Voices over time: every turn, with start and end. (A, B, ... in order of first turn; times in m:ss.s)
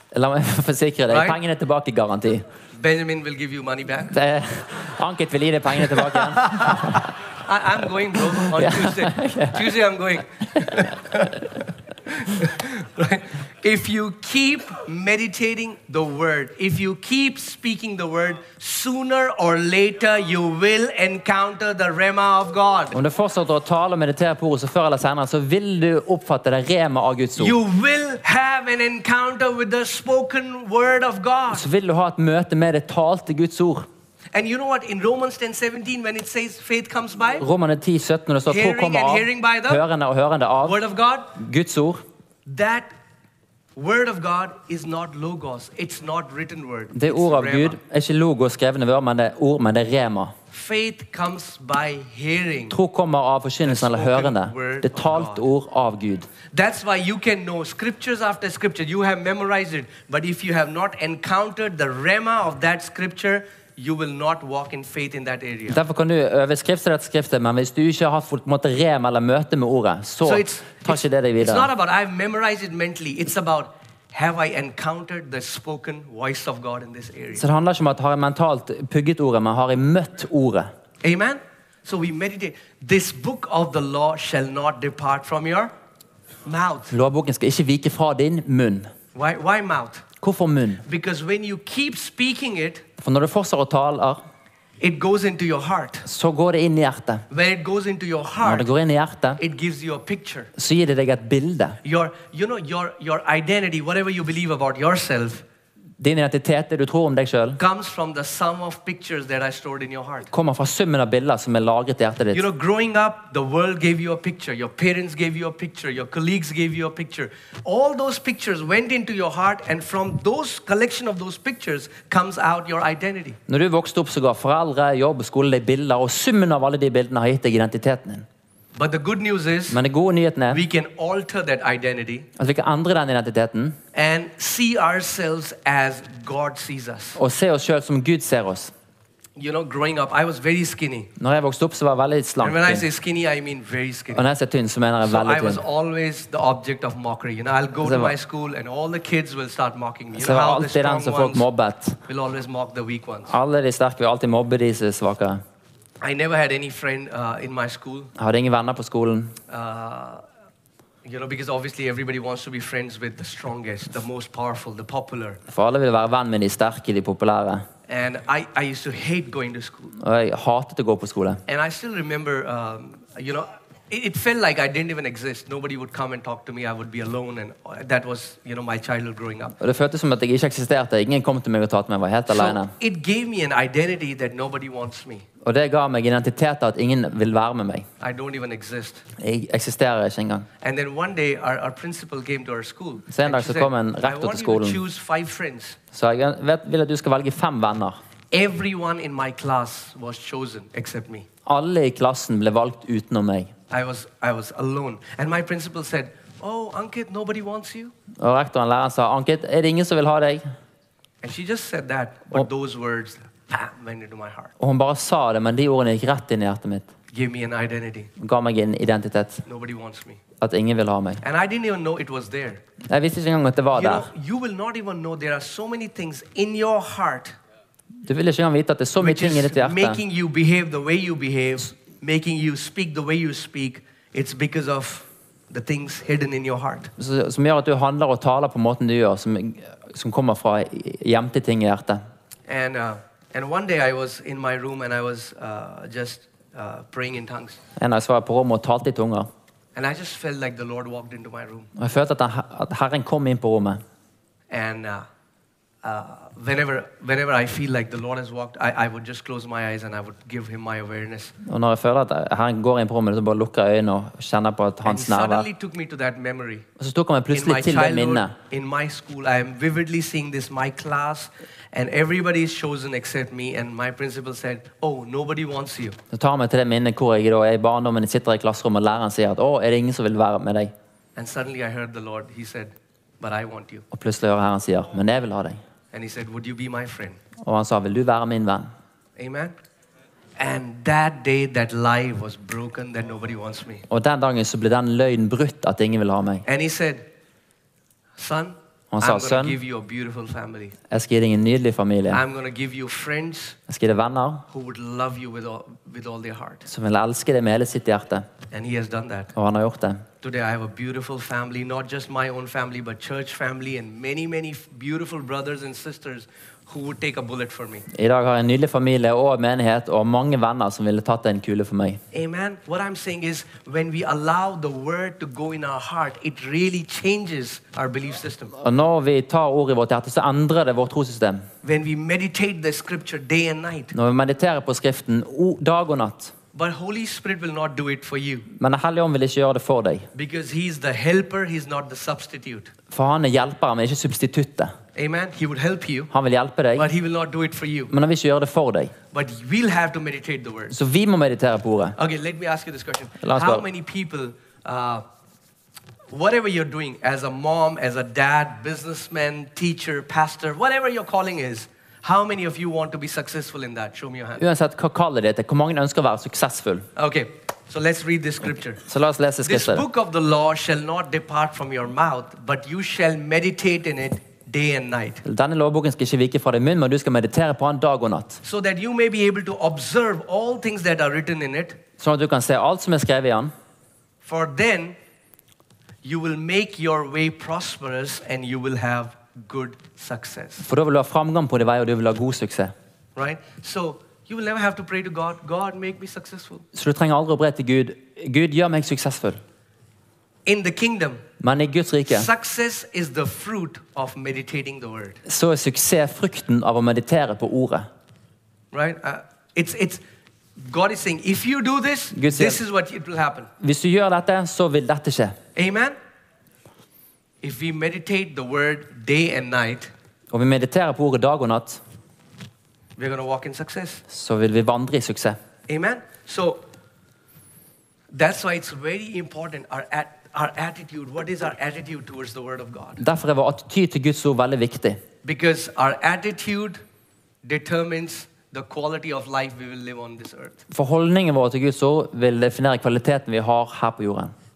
0:00.1-0:02.4 A
0:01.1-0:01.4 B
0:02.7-0:04.2 B
0:04.1-0:07.1 A
0:06.0-0:23.0 B
0:08.1-0:09.7 A
0:10.6-0:11.3 A
0:22.9-0:27.6 A
0:27.4-0:31.6 B
0:31.5-0:33.9 A
0:34.3-0:37.4 B
0:37.4-0:40.8 A
0:38.5-0:39.8 B
0:40.6-0:41.3 B
0:41.3-0:42.0 A
0:42.4-0:42.9 B
0:43.8-0:47.8 B
0:46.9-0:50.3 A
0:50.5-0:52.8 B
0:52.7-0:56.3 A
0:53.6-0:55.4 B
0:56.5-1:05.8 B
1:05.7-1:11.7 A
1:10.2-1:17.4 B
1:17.4-1:20.7 A
1:21.0-1:25.7 B
1:26.4-1:27.0 B
1:26.9-1:28.9 A
1:29.1-1:30.0 B
1:30.2-1:30.8 A
1:30.8-1:32.8 B
1:33.0-1:34.2 A
1:34.8-1:36.1 B
1:36.0-1:37.2 A
1:37.3-1:38.7 B
1:38.4-1:39.4 A
1:39.4-1:40.5 B
1:40.6-1:41.8 A
1:41.8-1:45.4 B
1:46.0-1:47.6 A
1:47.6-1:50.3 B
1:50.3-1:52.4 A
1:52.3-2:03.4 B
2:03.5-2:08.2 A
2:08.8-2:09.8 B
2:09.7-2:10.6 A
2:10.5-2:12.3 B
2:12.4-2:13.8 A
2:13.9-2:17.2 B
2:17.2-2:18.7 A
2:19.4-2:21.1 B
2:21.2-2:22.8 A
2:22.4-2:24.2 B
2:24.1-2:25.6 A
2:25.0-2:31.4 B
2:27.8-2:28.1 A
2:30.1-2:32.0 A
2:32.1-2:33.3 B
2:33.3-2:35.4 A
2:36.0-2:38.1 B
2:38.2-2:39.3 A
2:39.5-2:40.2 B
2:41.0-2:45.4 B
2:45.5-2:47.6 A
2:47.9-2:49.9 B
2:50.0-2:51.4 A
2:51.5-2:59.5 B
2:59.6-3:02.7 A
3:02.3-3:05.3 B
3:05.4-3:07.9 A
3:08.0-3:09.0 B
3:09.2-3:10.5 A
3:10.6-3:15.8 B
3:13.1-3:14.8 A
3:15.9-3:18.0 A
3:18.3-3:21.3 B
3:21.4-3:23.5 A
3:23.7-3:27.9 B
3:28.2-3:30.4 A
3:31.2-3:34.5 B
3:34.6-3:36.9 A
3:37.1-3:38.1 B
3:38.2-3:39.4 A
3:39.4-3:40.2 B
3:40.4-3:41.2 A
3:41.2-3:42.6 B
3:42.9-3:44.1 A
3:43.7-3:47.4 B
3:48.0-3:50.0 A
3:49.0-3:56.9 B
3:57.0-4:02.0 A
4:02.5-4:07.6 B
4:07.8-4:09.3 A
4:09.8-4:11.7 B
4:11.8-4:13.8 A
4:14.5-4:15.1 B
4:15.8-4:21.3 B
4:21.4-4:25.4 A
4:24.8-4:26.6 B
4:26.8-4:28.3 A
4:27.3-4:36.0 B
4:36.1-4:40.7 A
4:41.2-4:43.8 B
4:43.9-4:45.6 A
4:45.9-4:47.2 B
4:47.4-4:48.7 A
4:49.2-4:49.6 B
4:50.4-4:53.8 B
4:53.9-4:56.4 A
4:56.4-4:57.0 B
4:58.2-5:00.7 B
4:58.9-4:59.6 A
5:00.9-5:02.2 A
5:02.1-5:03.6 B
5:03.7-5:04.4 A
5:04.5-5:06.7 B
5:06.7-5:08.2 A
5:08.5-5:09.3 B
5:09.3-5:10.0 A
5:10.2-5:17.8 B
5:17.9-5:22.0 A
5:22.1-5:28.5 B
5:28.6-5:31.4 A
5:31.6-5:33.9 B
5:33.9-5:36.3 A
5:36.5-5:38.5 B
5:38.5-5:40.1 A
5:40.1-5:42.7 B
5:42.9-5:44.7 A
5:45.0-5:46.1 B
5:46.1-5:46.9 A
5:46.7-5:47.9 B
5:47.9-5:48.9 A
5:49.1-5:50.7 B
5:50.7-5:52.0 A
5:52.0-5:55.0 B
5:53.2-5:53.6 A
5:56.1-6:04.4 B
6:04.4-6:06.8 A
6:07.0-6:08.8 B
6:08.8-6:09.8 A
6:09.4-6:15.2 B
6:15.2-6:18.4 A
6:18.4-6:21.8 B
6:22.0-6:23.5 A
6:24.2-6:25.0 B
6:26.0-6:30.7 B
6:30.6-6:32.7 A
6:33.2-6:36.6 B
6:36.7-6:39.4 A
6:40.4-6:41.2 B
6:41.4-6:42.3 A
6:42.0-6:45.2 B
6:45.2-6:47.9 A
6:48.7-6:50.0 B
6:50.6-6:53.5 B
6:52.1-6:52.6 A
6:53.6-6:55.4 A
6:55.6-6:56.0 B
6:57.4-6:59.9 B
7:00.3-7:01.8 A
7:03.0-7:04.0 B
7:04.1-7:05.4 A
7:05.7-7:06.6 B
7:08.1-7:13.0 B
7:13.0-7:15.0 A
7:15.2-7:16.8 B
7:17.4-7:20.6 B
7:20.7-7:24.3 A